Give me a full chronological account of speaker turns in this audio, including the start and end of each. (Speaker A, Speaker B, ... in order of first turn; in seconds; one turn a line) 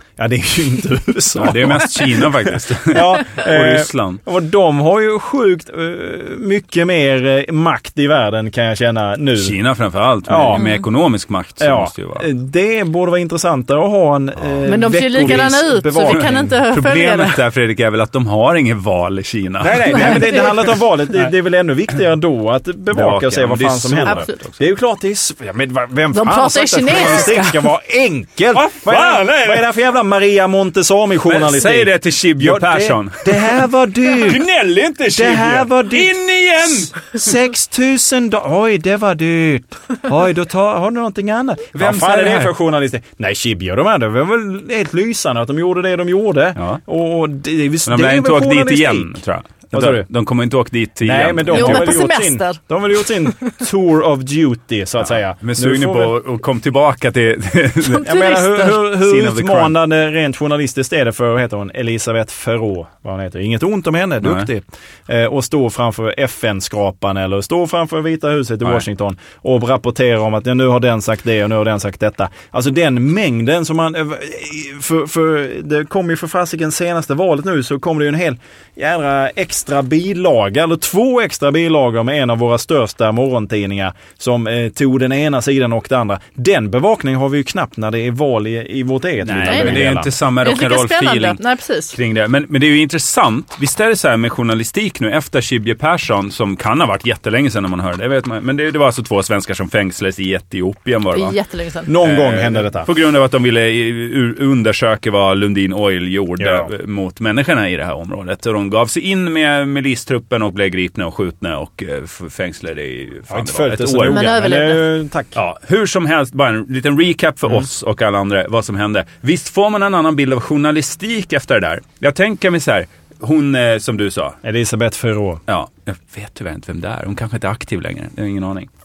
Speaker A: 0.2-2.3
Speaker B: 1.4-4.2
Speaker A: 2.9-9.6
Speaker B: 9.3-12.3
Speaker A: 10.3-10.7
Speaker C: 10.5-10.8
Speaker A: 11.6-16.6
Speaker C: 14.7-17.4
Speaker B: 15.2-15.5
Speaker B: 16.0-20.5
Speaker A: 19.6-34.4
Speaker C: 19.9-20.4
Speaker B: 22.9-24.5
Speaker C: 24.0-24.4
Speaker C: 26.1-27.6
Speaker B: 28.5-29.7
Speaker B: 31.3-33.5
Speaker B: 34.2-37.3
Speaker A: 35.1-49.1
Speaker B: 41.7-42.5
Speaker B: 47.9-52.0
Speaker A: 49.7-50.1
Speaker A: 51.0-56.1
Speaker C: 51.5-52.6
Speaker B: 55.4-58.1
Speaker C: 57.9-58.7
Speaker A: 57.9-90.1
Speaker B: 58.8-59.7
Speaker B: 64.2-64.5
Speaker B: 89.2-91.4
Speaker C: 89.4-89.8
Speaker C: 90.4-91.9
Speaker B: 91.9-101.3
Speaker C: 101.1-101.9
Speaker A: 101.8-102.9
Speaker B: 102.0-114.3
Speaker A: 106.4-106.7
Speaker A: 113.3-115.4
Speaker C: 114.0-114.9
Speaker B: 115.3-124.4
Speaker A: 124.4-125.4
Speaker B: 125.5-128.7